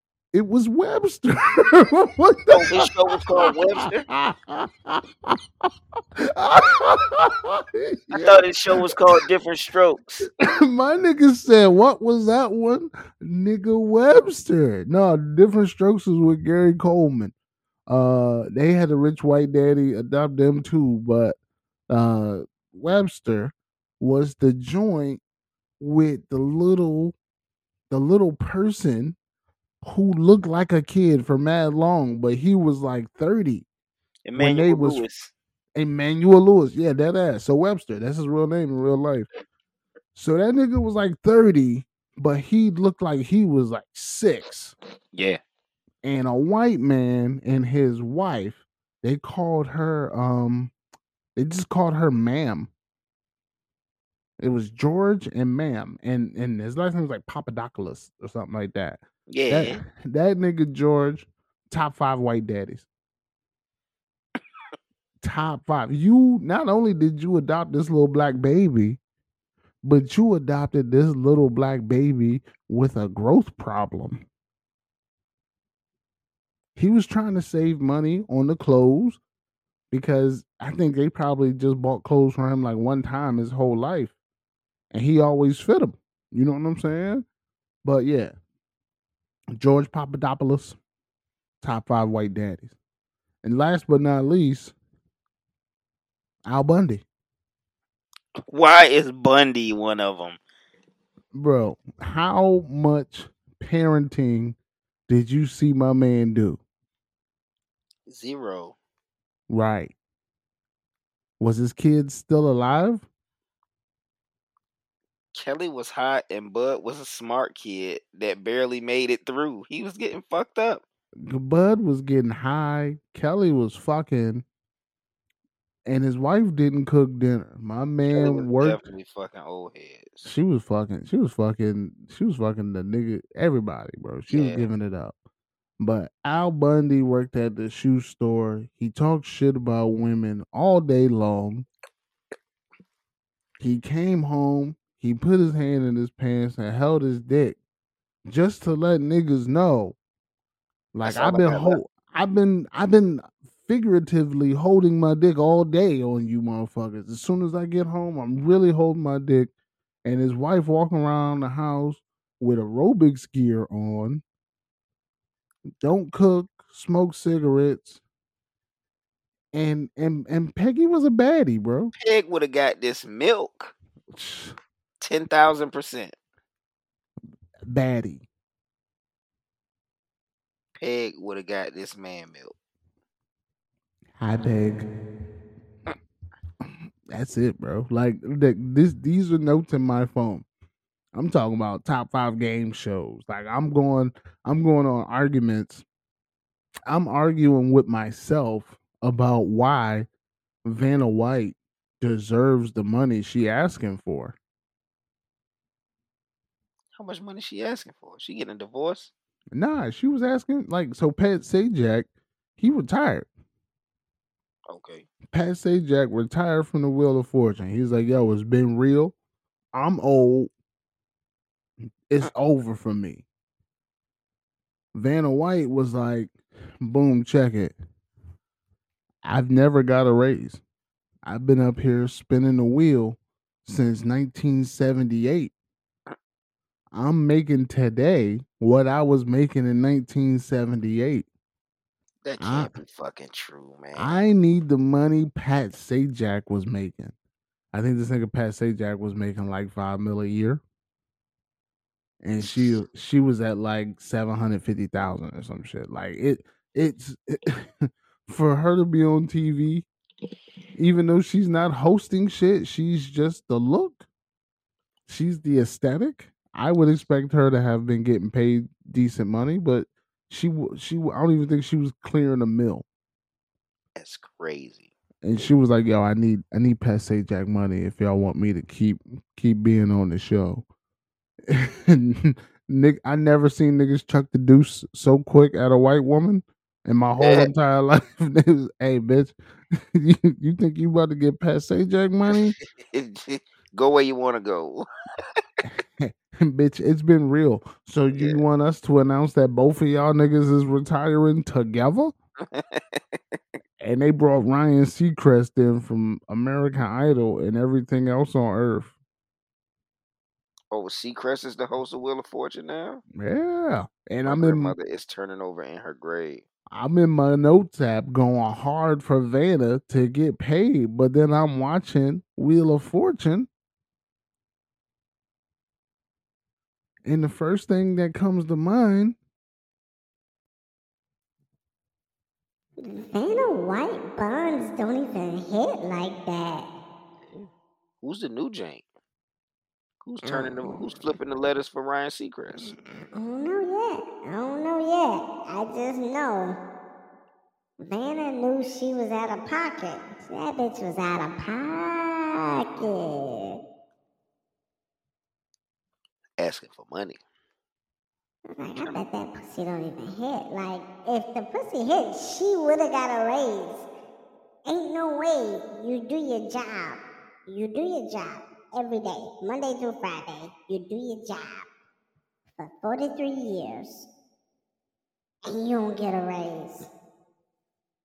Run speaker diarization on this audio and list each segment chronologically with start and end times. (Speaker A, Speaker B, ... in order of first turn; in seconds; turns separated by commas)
Speaker A: 0.3-5.4, Speaker B: 2.5-4.1, Speaker A: 6.2-8.9, Speaker B: 8.1-10.3, Speaker A: 10.4-17.3, Speaker A: 17.9-21.4, Speaker A: 21.9-25.2, Speaker A: 25.8-27.1, Speaker A: 27.9-29.1, Speaker A: 29.8-33.6, Speaker B: 34.2-35.3, Speaker A: 34.4-35.0, Speaker A: 35.8-39.3, Speaker A: 40.1-44.7, Speaker B: 45.1-45.4, Speaker A: 46.0-50.7, Speaker A: 51.4-52.7, Speaker A: 54.4-62.9, Speaker B: 59.3-59.8, Speaker A: 65.2-69.0, Speaker A: 69.8-74.2, Speaker A: 76.8-79.2, Speaker A: 79.9-84.2, Speaker A: 84.9-87.2, Speaker A: 87.8-88.3, Speaker A: 89.5-90.8, Speaker A: 91.6-92.7, Speaker A: 93.4-94.7, Speaker A: 96.4-97.0, Speaker B: 98.4-100.4, Speaker A: 101.3-104.6, Speaker A: 105.1-106.6, Speaker B: 108.1-108.8, Speaker A: 109.5-109.9, Speaker A: 111.4-113.0, Speaker B: 115.3-120.8, Speaker A: 121.2-124.4, Speaker A: 125.8-128.8, Speaker B: 128.1-130.3, Speaker A: 130.2-135.2, Speaker B: 134.3-134.7, Speaker A: 135.8-141.7, Speaker A: 143.6-147.6, Speaker A: 148.3-150.0, Speaker A: 150.9-159.5, Speaker B: 151.0-151.8, Speaker A: 160.0-164.2, Speaker A: 165.8-168.0, Speaker A: 169.5-171.9, Speaker B: 172.0-173.7, Speaker A: 174.1-174.6, Speaker B: 175.0-176.1, Speaker A: 177.6-178.2, Speaker B: 180.8-182.5, Speaker A: 184.2-184.8, Speaker A: 187.1-190.4, Speaker A: 191.1-195.8, Speaker A: 196.9-200.1, Speaker A: 200.6-204.4, Speaker B: 207.0-209.1, Speaker A: 209.5-213.3, Speaker B: 214.7-215.1, Speaker A: 215.3-219.1, Speaker A: 219.7-220.5, Speaker A: 222.1-223.2, Speaker A: 224.9-227.8, Speaker A: 229.2-230.6, Speaker A: 231.2-235.5, Speaker A: 236.9-241.2, Speaker B: 242.2-244.2, Speaker A: 242.4-242.7, Speaker A: 243.9-247.1, Speaker A: 247.7-250.6, Speaker A: 252.2-259.9, Speaker A: 260.7-264.1, Speaker A: 265.1-272.9, Speaker B: 273.9-274.9, Speaker A: 275.2-280.6, Speaker A: 281.5-292.6, Speaker B: 287.2-287.5, Speaker B: 292.3-294.9, Speaker A: 295.6-302.1, Speaker B: 298.1-298.4, Speaker B: 302.4-303.4, Speaker A: 303.8-308.9, Speaker B: 310.7-313.0, Speaker A: 313.1-314.7, Speaker B: 314.2-316.4, Speaker A: 316.7-323.5, Speaker A: 327.0-329.2, Speaker C: 332.8-336.7, Speaker B: 338.0-338.8, Speaker B: 340.0-342.8, Speaker C: 340.2-340.9, Speaker C: 342.6-346.6, Speaker C: 347.8-353.6, Speaker B: 356.4-357.2, Speaker C: 358.5-363.9, Speaker C: 364.7-371.7, Speaker C: 372.6-374.1, Speaker C: 375.4-376.9